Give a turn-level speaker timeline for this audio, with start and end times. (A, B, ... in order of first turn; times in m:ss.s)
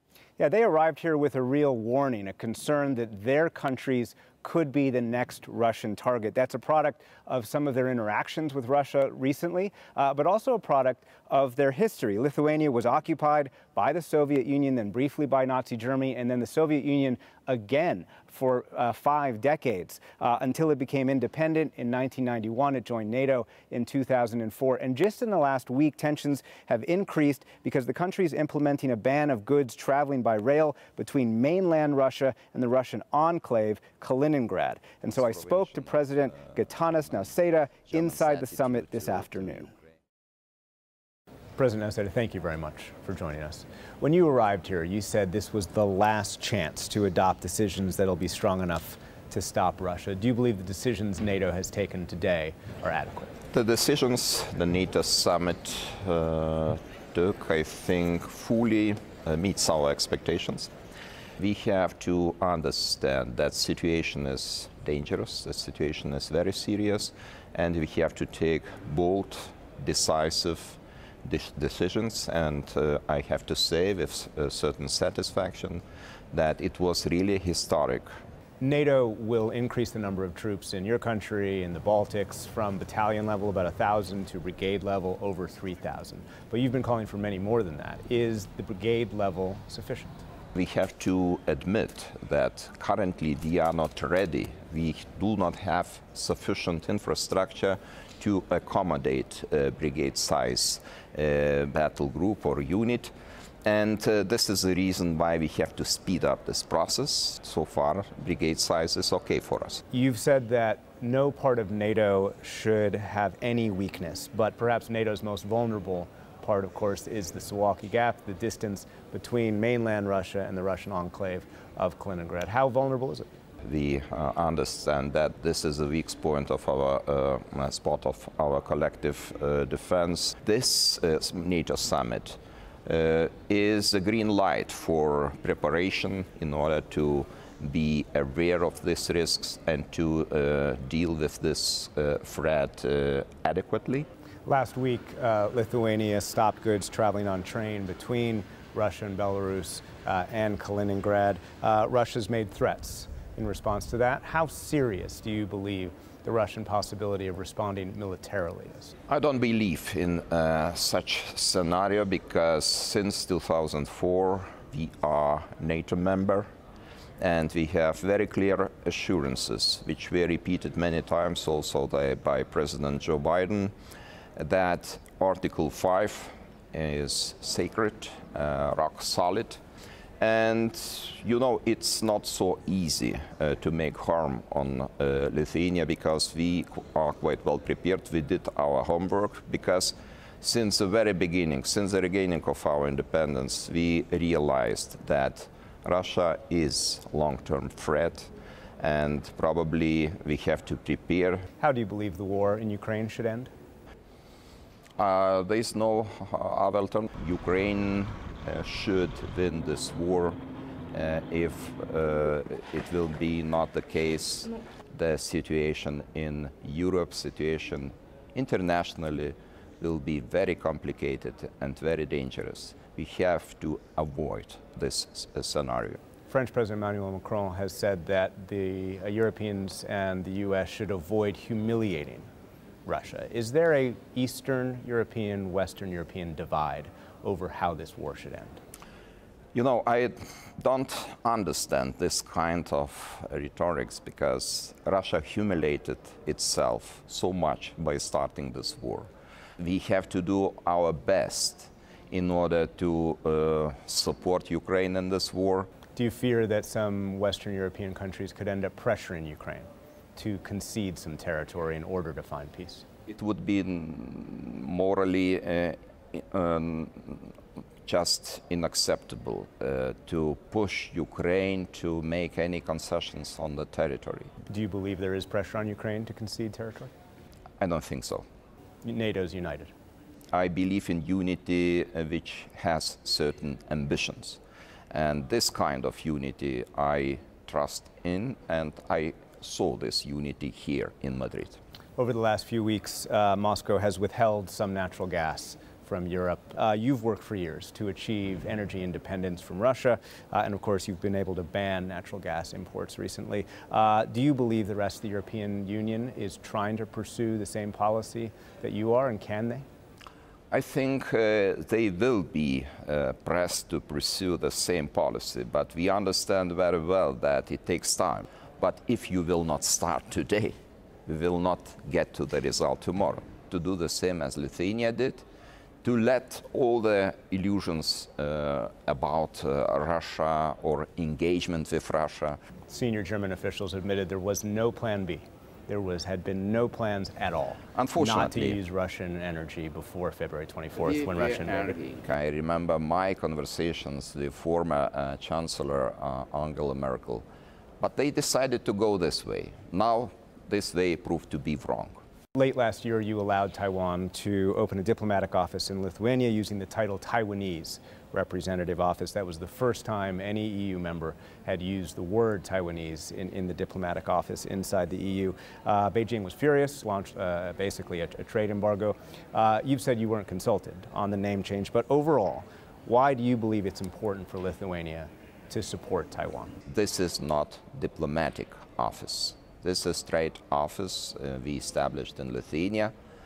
0:00.4-0:39.7 A
0:35.2-0:39.9 B
0:41.6-0:53.3 A
0:53.5-1:00.7 B
1:01.4-1:18.1 B
1:18.6-1:30.2 A
1:30.6-1:43.1 B
1:43.6-1:49.8 B
1:49.9-2:03.3 A
2:03.6-2:24.1 B
2:24.5-2:39.0 A
2:39.1-2:46.5 B
2:47.2-2:53.7 B
2:54.4-2:59.6 B
3:00.2-3:21.5 B
3:21.6-3:23.5 A
3:25.0-3:30.4 B
3:30.9-3:46.0 B
3:46.3-3:52.3 A
3:52.8-3:58.6 A
3:59.5-4:09.1 B
4:09.6-4:15.7 B
4:16.0-4:22.8 A
4:23.1-4:27.4 B
4:27.9-4:34.3 B
4:34.5-4:36.9 A
4:37.6-4:38.2 B
4:38.8-4:39.7 A
4:40.3-4:44.4 B
4:44.9-4:51.6 B
4:52.0-5:09.7 A
5:10.5-5:20.5 B
5:21.1-5:25.2 B
5:25.8-5:32.4 B
5:32.7-5:41.8 A
5:37.8-5:38.6 B
5:41.8-5:47.2 B
5:47.8-5:52.0 B
5:52.4-6:16.6 A
6:16.7-6:22.9 B